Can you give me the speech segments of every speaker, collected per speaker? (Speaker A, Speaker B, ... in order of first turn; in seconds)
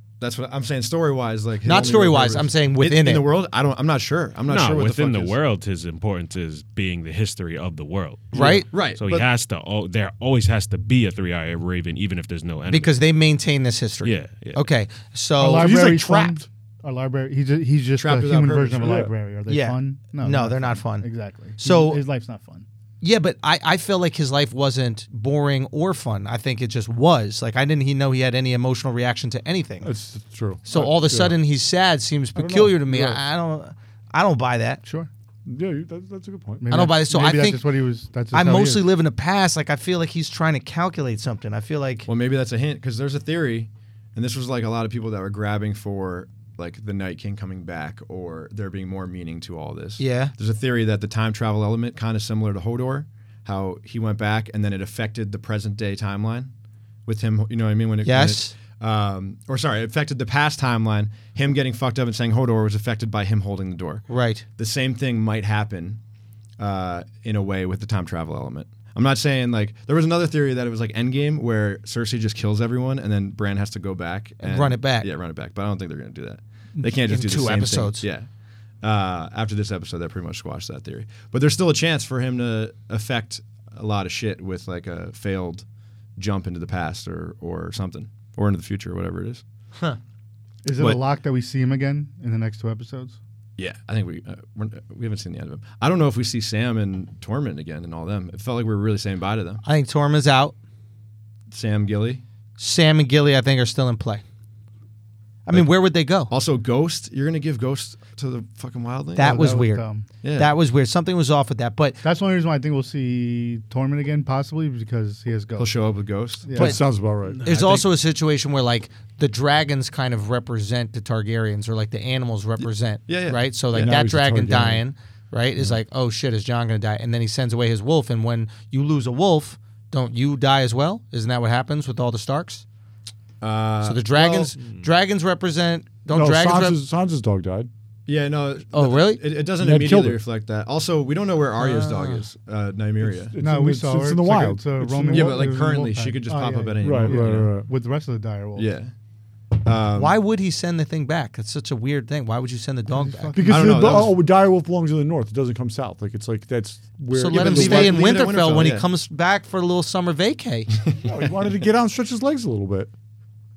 Speaker A: 0.2-5.4, 8.7-9.3, 18.0-19.0, 42.1-56.5, 57.1-64.1, 64.6-66.0, 66.6-78.2, 78.8-85.7, 86.2-89.4, 93.6-99.6, 101.5-102.2, 106.3-109.5, 110.2-110.5, 115.6-116.5, 117.5-117.8, 122.6-123.9, 133.4-134.5, 138.1-143.3, 145.1-147.5, 148.6-148.9, 149.6-150.2, 153.4-154.2, 157.3-158.9
Speaker B: 1.6-3.2, 8.3-8.7, 12.7-15.8, 19.5-22.0, 23.0-29.9, 30.7-34.8, 36.7-37.6, 38.3-42.1, 50.0-50.3, 58.0-58.5, 64.1-64.4, 74.4-75.1, 76.8-78.0, 99.6-100.5, 102.6-104.2, 105.5-106.3, 109.2-109.8, 110.4-112.0, 116.6-116.8, 117.4-132.6, 133.8-136.8, 138.7-139.2, 141.6-142.2, 150.0-153.4, 157.1-160.7
Speaker C: 4.5-13.0, 14.0-14.6
Speaker D: 15.4-22.6, 34.8-35.1, 36.6-38.9, 90.6-93.2, 109.2-110.1, 112.0-115.7, 116.4-116.8, 143.4-148.7, 152.9-153.9
Speaker E: 15.6-16.5, 18.8-19.1, 29.8-31.4, 32.4-33.2, 35.5-36.6, 116.5-117.4, 123.7-124.8, 136.1-137.7, 139.6-140.2, 143.0-145.5, 146.8-147.7, 153.3-158.1, 161.0-162.9